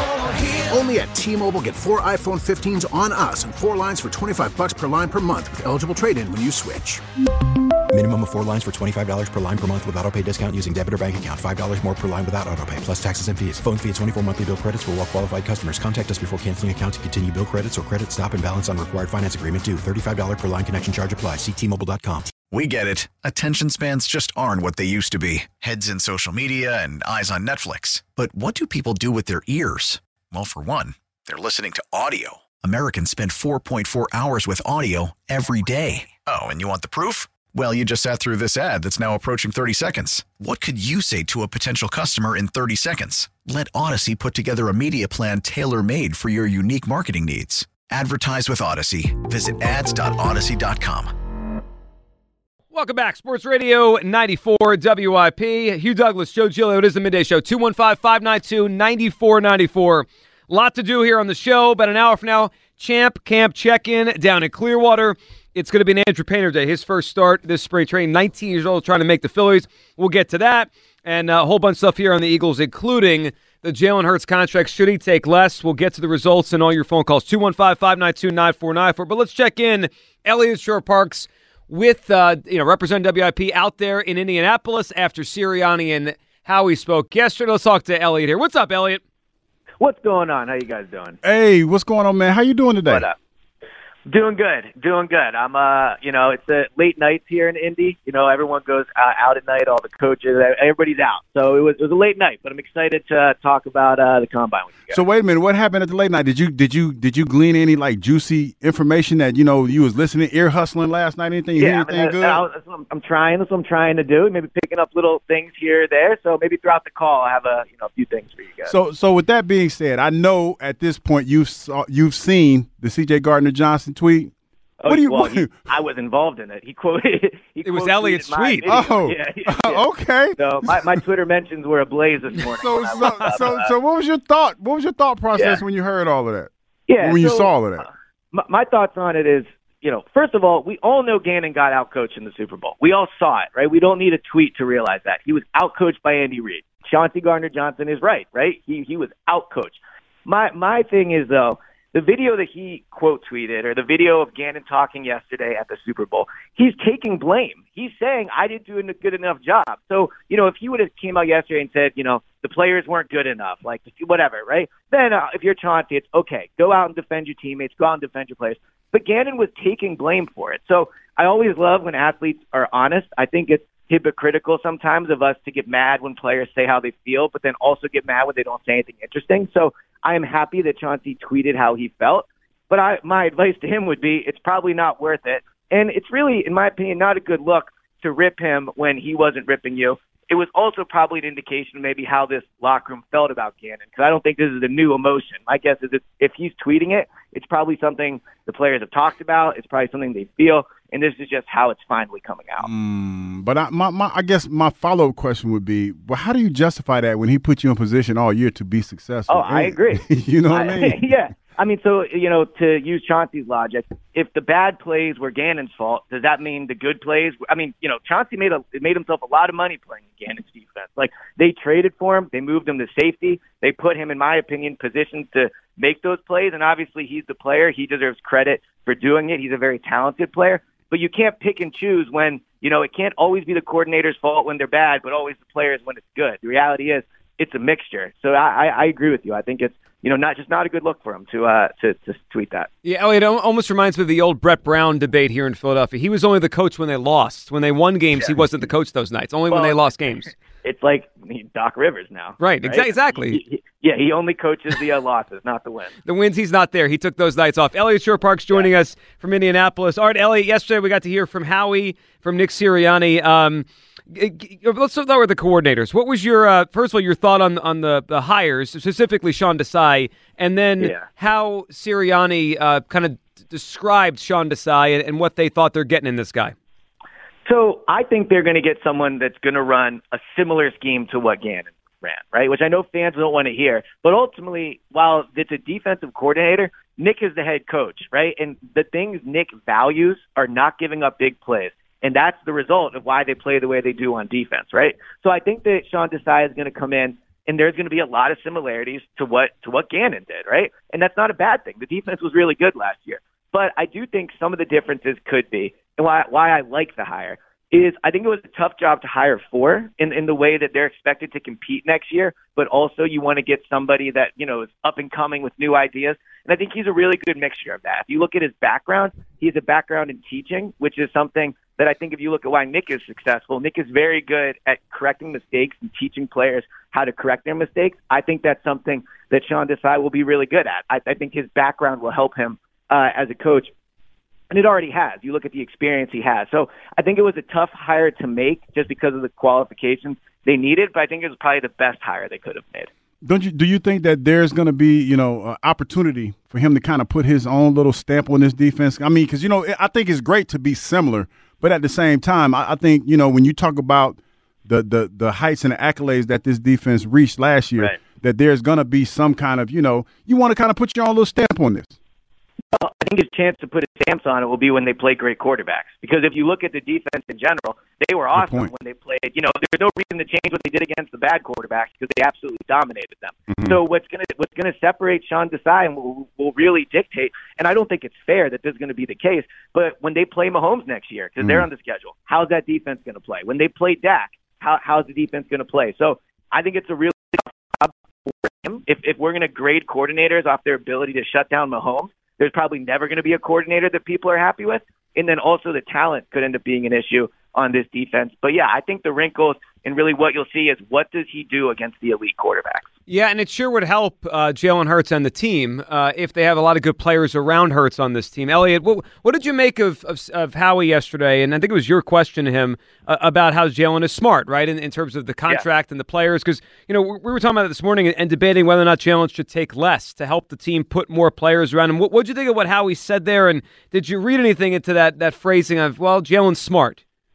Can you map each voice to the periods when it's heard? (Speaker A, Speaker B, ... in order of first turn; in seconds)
Speaker A: 0.2-7.0
Speaker B: 7.9-22.3
Speaker C: 22.5-51.1
Speaker D: 52.7-89.0, 127.6-128.7, 133.0-133.3, 242.8-250.3, 252.4-253.4, 256.0-276.5, 403.1-427.0
Speaker E: 89.8-91.2, 92.8-93.2, 94.1-105.0, 111.5-118.7, 124.8-133.7, 135.3-135.6, 136.9-202.7, 209.3-242.7, 249.5-250.1, 250.6-255.9, 277.4-333.7, 334.5-342.9, 362.7-402.9
Speaker F: 91.2-93.1, 104.9-112.4, 118.7-124.3, 124.8-125.5, 128.7-131.0, 132.4-137.9, 202.6-211.0, 343.2-361.9, 368.3-368.7, 373.5-373.8, 381.4-381.7